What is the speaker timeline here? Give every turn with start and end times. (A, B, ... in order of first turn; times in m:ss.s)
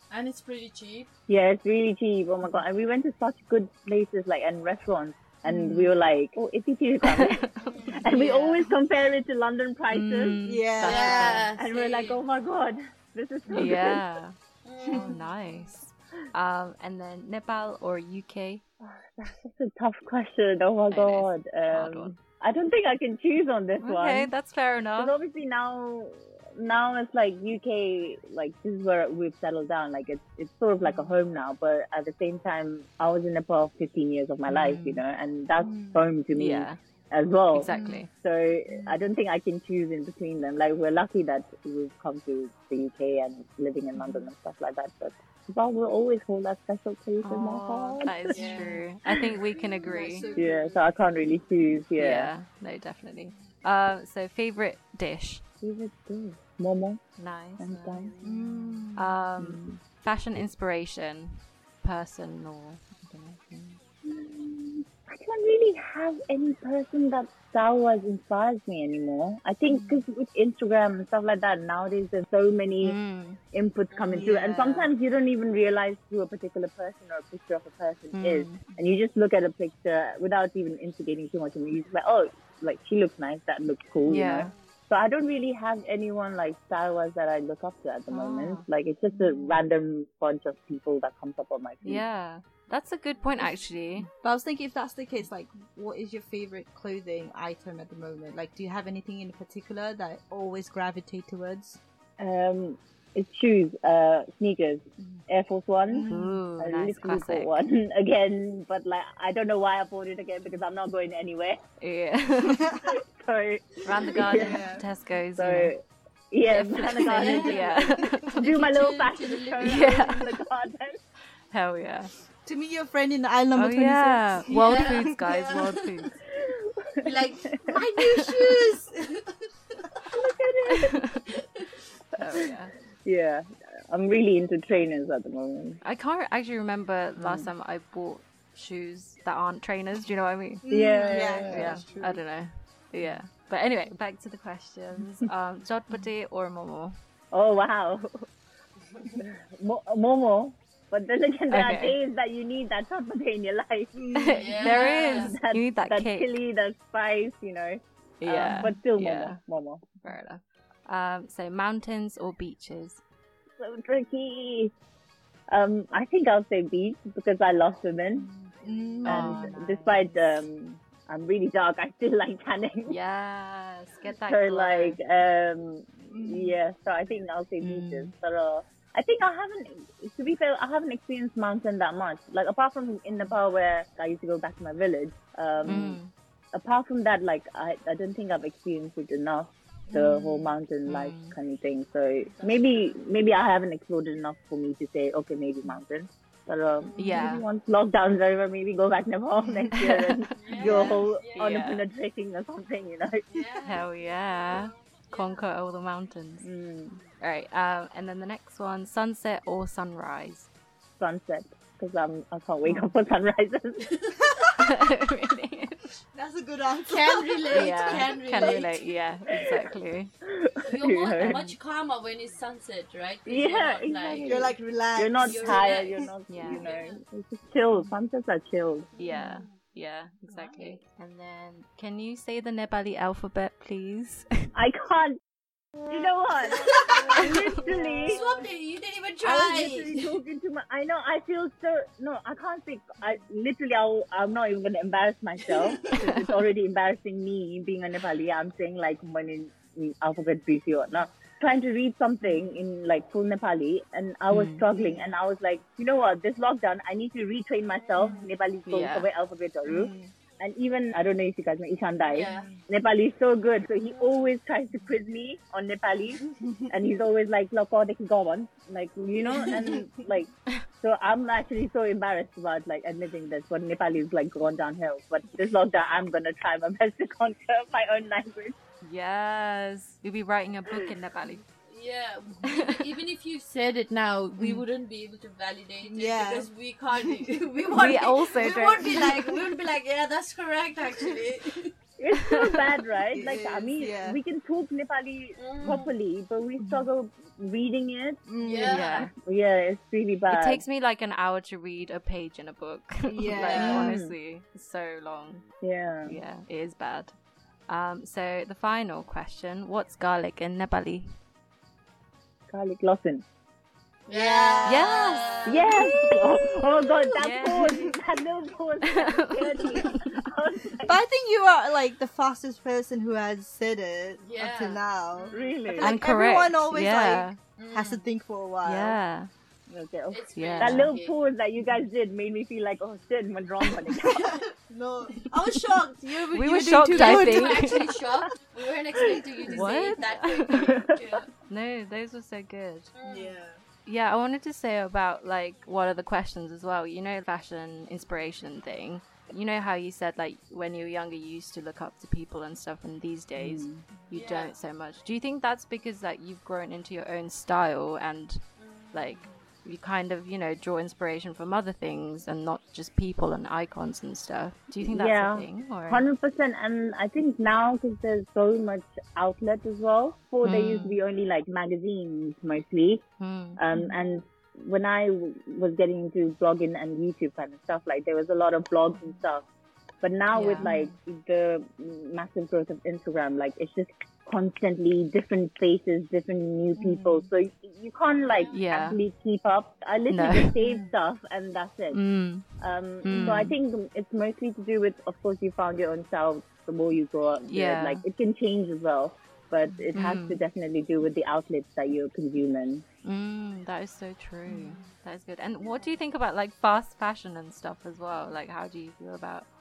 0:00.1-0:01.1 A
0:01.3-0:07.4 B
0:05.4-0:05.9 C
0:07.1-0:07.6 D
0:07.6-0:08.6 A
0:07.9-0:10.4 B
0:09.9-0:11.5 D
0:10.4-0:11.5 C
0:10.8-0:12.2 A
0:11.2-0:14.0 B
0:13.5-0:14.3 D
0:14.6-0:15.1 A
0:14.8-0:15.2 C
0:14.9-0:18.6 D
0:18.8-0:24.3 B
0:20.9-0:22.1 D
0:23.8-0:25.1 D
0:25.0-0:48.5 B
0:34.5-0:35.0 D
0:35.6-0:36.0 C
0:36.3-0:36.8 D
0:37.5-0:38.1 D
0:37.7-0:38.0 C
0:44.0-0:44.2 C
0:47.2-0:50.3 D
0:48.3-0:48.8 C
0:48.3-0:48.8 A
0:49.8-0:50.6 C
0:50.0-0:50.7 A
0:50.3-0:52.3 B
0:52.0-0:55.4 D
0:55.6-0:57.0 B
0:57.2-0:58.1 D
0:57.6-0:58.1 B
0:58.2-0:59.1 C
0:58.3-0:58.9 A
0:58.9-1:03.8 D
0:59.4-0:59.8 B
1:04.0-1:13.0 B
1:09.7-1:10.0 C
1:12.8-1:13.4 D
1:13.5-1:32.0 B
1:13.9-1:14.3 A
1:14.1-1:14.9 C
1:18.1-1:18.6 D
1:24.1-1:24.5 D
1:28.1-1:28.6 D
1:29.1-1:29.6 C
1:31.8-1:34.1 D
1:34.1-1:41.8 C
1:42.2-1:51.6 B
1:45.9-1:46.4 C
1:46.0-1:47.5 D
1:51.8-1:52.7 D
1:52.4-1:52.9 C
1:52.8-1:54.6 B
1:53.8-1:55.7 D
1:54.2-1:54.8 C
1:55.3-1:55.8 B
1:56.3-2:01.0 B
1:56.4-1:58.5 D
1:57.1-2:00.2 A
1:59.6-2:00.3 D
2:01.5-2:02.1 D
2:02.4-2:05.8 C
2:03.5-2:06.2 D
2:04.5-2:05.1 A
2:06.4-2:07.6 B
2:07.0-2:09.3 A
2:10.1-2:11.0 B
2:10.7-2:11.2 D
2:12.2-2:12.7 D
2:12.2-2:12.5 B
2:13.0-2:15.8 B
2:15.8-2:27.0 D
2:17.2-2:17.5 B
2:20.6-2:22.2 C
2:20.7-2:21.8 B
2:27.3-2:28.2 B
2:29.1-2:33.9 B
2:31.5-2:32.0 D
2:33.9-2:34.7 C
2:34.1-2:36.3 D
2:34.4-2:35.3 A
2:34.6-2:39.8 B
2:38.2-2:39.4 D
2:40.0-2:43.0 D
2:43.6-2:44.7 B
2:45.5-2:48.3 B
2:48.3-2:50.2 D
2:48.6-2:49.5 C
2:49.0-2:53.0 B
2:52.9-2:55.0 D
2:54.2-3:06.0 B
2:56.1-2:56.6 C
2:57.6-2:58.1 D
3:05.6-3:06.1 D
3:06.5-3:23.2 B
3:09.9-3:10.2 C
3:10.0-3:10.3 D
3:10.8-3:11.3 D
3:12.3-3:12.9 A
3:16.8-3:17.1 A
3:17.0-3:17.4 D
3:19.8-3:21.8 D
3:20.4-3:21.5 A
3:20.5-3:21.0 C
3:23.3-3:25.4 A
3:23.6-3:26.5 D
3:26.4-3:27.0 B
3:27.2-3:30.5 D
3:31.0-3:33.8 B
3:32.6-3:32.9 D
3:33.8-3:34.2 A
3:34.2-3:34.6 C
3:34.6-3:35.8 D
3:36.1-3:38.6 C
3:36.9-3:39.0 A
3:37.5-3:40.1 D
3:39.3-3:39.6 B
3:40.2-3:41.4 B
3:40.6-3:44.4 A
3:41.2-3:41.5 D
3:43.2-3:48.9 B
3:44.2-3:46.1 C
3:45.2-3:47.0 A
3:46.3-3:46.6 D
3:48.9-3:49.6 A
3:49.0-3:54.5 D
3:50.3-3:50.8 A
3:54.5-3:55.2 B
3:55.9-3:58.2 B
3:56.4-3:58.4 C
3:56.8-4:00.0 A
3:59.2-4:30.3 B
4:05.5-4:05.9 C
4:05.9-4:06.2 D
4:14.3-4:14.6 D
4:17.8-4:18.3 A
4:18.7-4:19.1 D
4:19.6-4:20.1 C
4:22.1-4:22.5 A
4:22.3-4:22.6 C
4:29.4-4:29.8 C
4:30.8-4:38.6 B
4:38.8-4:41.4 D
4:41.6-4:51.7 A
4:44.4-4:44.6 D
4:45.8-4:47.3 C
4:47.8-4:49.1 D
4:48.4-4:49.3 C
4:52.0-4:58.2 B
4:53.1-4:54.2 C
4:55.4-4:55.9 A
4:56.6-4:56.9 C
4:58.3-4:58.8 C
4:58.4-4:59.1 A
4:58.7-4:59.1 D
4:59.1-5:00.6 B
5:00.3-5:05.4 D
5:03.1-5:03.9 C
5:03.3-5:03.9 A
5:03.6-5:04.1 B
5:05.6-5:06.2 B
5:06.0-5:07.1 D
5:07.7-5:11.2 D
5:12.5-5:13.2 B
5:14.1-5:15.7 A
5:14.1-5:15.8 C
5:14.6-5:15.9 D
5:15.4-5:21.0 B
5:17.2-5:17.9 D
5:17.5-5:17.9 C
5:18.8-5:20.0 D
5:20.8-5:29.0 C
5:24.2-5:25.7 A
5:25.3-5:26.0 B
5:25.8-5:27.4 D
5:27.6-5:28.1 A
5:28.6-5:29.3 D
5:29.7-5:34.3 B
5:30.1-5:31.2 A
5:30.3-5:30.9 D
5:33.9-5:38.0 C
5:36.3-5:38.0 D
5:36.9-5:41.3 A
5:39.5-5:40.7 D
5:40.7-5:41.2 B
5:41.5-5:42.9 D
5:42.9-5:43.4 A
5:43.0-5:43.6 C
5:43.8-5:58.4 D
5:53.4-5:53.8 B
5:54.1-5:54.5 A
5:58.6-5:59.3 A
5:58.9-6:06.0 D
6:04.8-6:13.0 B
6:10.4-6:11.0 D
6:13.2-6:13.6 D
6:13.6-6:19.4 B
6:20.0-6:32.0 B
6:20.3-6:20.7 D
6:20.6-6:20.8 C
6:26.8-6:27.3 C
6:28.2-6:28.6 A
6:28.5-6:29.0 D
6:30.1-6:30.5 D
6:30.6-6:30.9 C
6:31.9-6:33.5 D
6:32.6-6:42.8 B
6:33.1-6:33.4 C
6:37.5-6:38.0 D
6:39.9-6:40.4 D
6:43.0-6:49.5 D
6:44.5-6:44.8 C